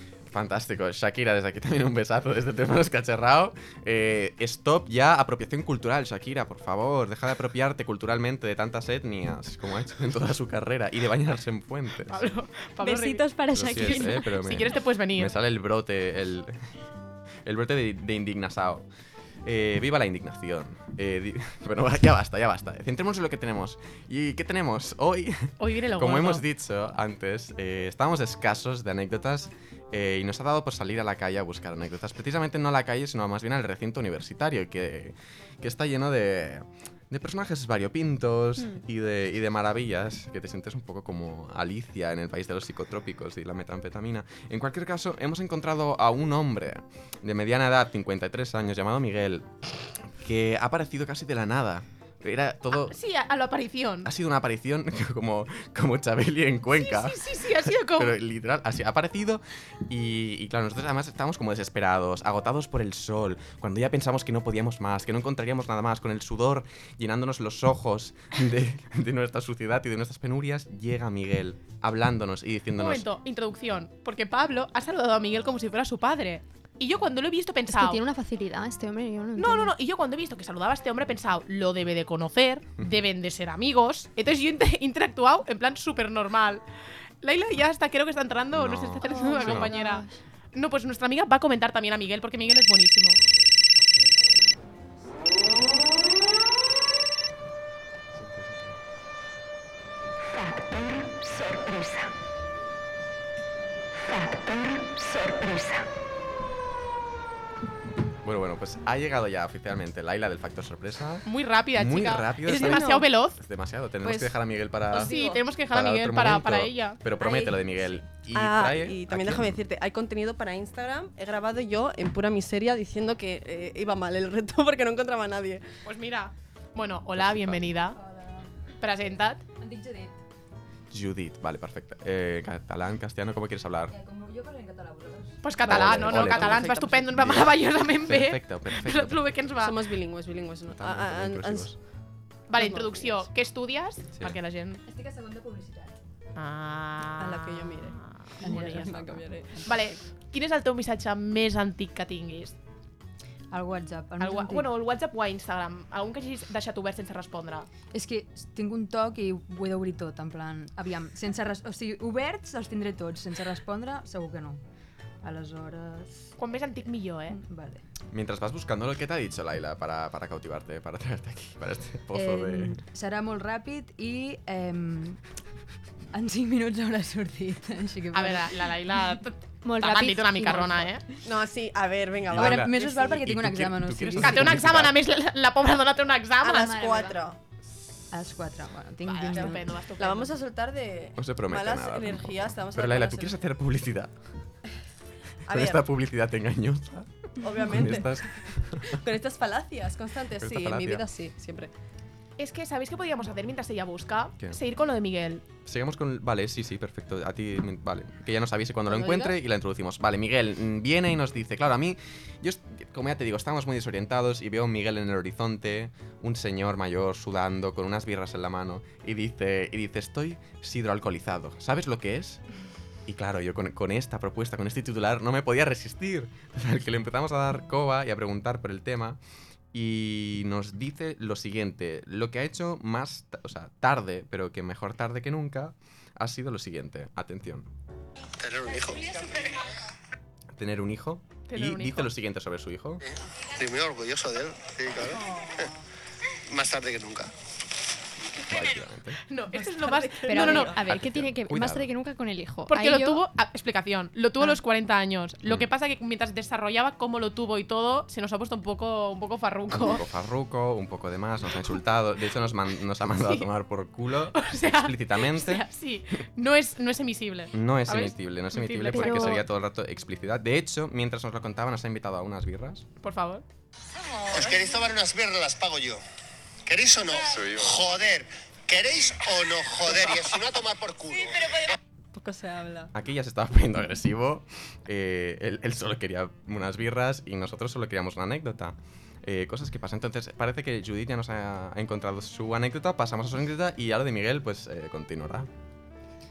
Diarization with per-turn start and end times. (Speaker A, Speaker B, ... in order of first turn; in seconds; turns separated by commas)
Speaker A: 0.3-12.2, Speaker B: 12.1-15.3, Speaker C: 12.8-14.3, Speaker A: 13.5-16.7, Speaker A: 17.4-18.9, Speaker A: 19.4-49.5, Speaker B: 25.6-26.4, Speaker A: 50.2-52.9, Speaker B: 52.8-54.1, Speaker A: 54.0-73.0, Speaker B: 56.8-58.1, Speaker B: 72.8-78.0, Speaker C: 77.7-79.7, Speaker B: 79.4-86.6, Speaker B: 87.2-93.2, Speaker A: 88.5-89.7, Speaker C: 89.1-90.0, Speaker A: 98.1-98.8, Speaker A: 108.2-115.2, Speaker B: 111.2-113.4, Speaker D: 112.4-113.1, Speaker D: 114.0-115.4, Speaker B: 115.0-117.0, Speaker A: 115.7-119.6, Speaker D: 117.2-125.6, Speaker B: 125.8-128.0, Speaker A: 127.1-127.6, Speaker E: 127.9-128.5, Speaker B: 128.8-129.4, Speaker E: 129.6-130.2, Speaker A: 130.9-133.9, Speaker E: 133.9-135.4, Speaker B: 135.4-139.8, Speaker D: 135.6-137.3, Speaker A: 135.7-139.6, Speaker D: 139.6-141.7, Speaker A: 140.7-141.8, Speaker B: 142.5-144.8, Speaker D: 142.6-143.3, Speaker E: 144.8-146.0, Speaker B: 146.3-148.9, Speaker D: 147.2-149.9, Speaker E: 148.4-149.7, Speaker B: 149.7-152.6, Speaker E: 153.5-154.7, Speaker B: 154.2-157.7, Speaker E: 157.9-164.6, Speaker E: 165.2-166.3, Speaker B: 166.4-167.4, Speaker E: 167.3-167.8, Speaker A: 168.1-172.8, Speaker E: 172.1-175.2, Speaker E: 176.1-178.7, Speaker B: 178.1-181.0, Speaker C: 179.6-180.9, Speaker D: 181.2-183.2, Speaker A: 182.3-185.0, Speaker E: 182.3-184.6, Speaker B: 184.2-186.8, Speaker D: 186.4-187.4, Speaker C: 186.6-187.2, Speaker E: 188.1-189.8, Speaker B: 189.0-190.3, Speaker D: 189.3-193.4, Speaker A: 191.2-194.2, Speaker D: 195.4-195.8, Speaker A: 195.5-199.0, Speaker D: 197.4-198.2, Speaker D: 198.8-201.7, Speaker A: 200.3-201.1, Speaker B: 202.4-205.4, Speaker A: 205.7-222.4, Speaker D: 208.9-209.3, Speaker A: 223.1-229.2, Speaker A: 229.7-237.7, Speaker F: 238.4-239.2, Speaker A: 240.5-243.0, Speaker B: 241.5-242.1, Speaker F: 243.5-245.2, Speaker D: 245.2-245.7, Speaker F: 246.5-247.3, Speaker A: 248.5-249.2, Speaker B: 249.3-250.8, Speaker D: 249.5-250.8, Speaker C: 250.3-253.2, Speaker A: 250.8-251.9, Speaker B: 252.7-260.0, Speaker A: 259.7-265.6, Speaker B: 263.1-263.5, Speaker B: 264.3-269.4, Speaker A: 267.5-272.8, Speaker C: 268.9-269.4, Speaker B: 273.0-273.4, Speaker F: 274.3-276.0, Speaker F: 276.6-281.4, Speaker D: 282.1-282.9, Speaker A: 282.9-295.5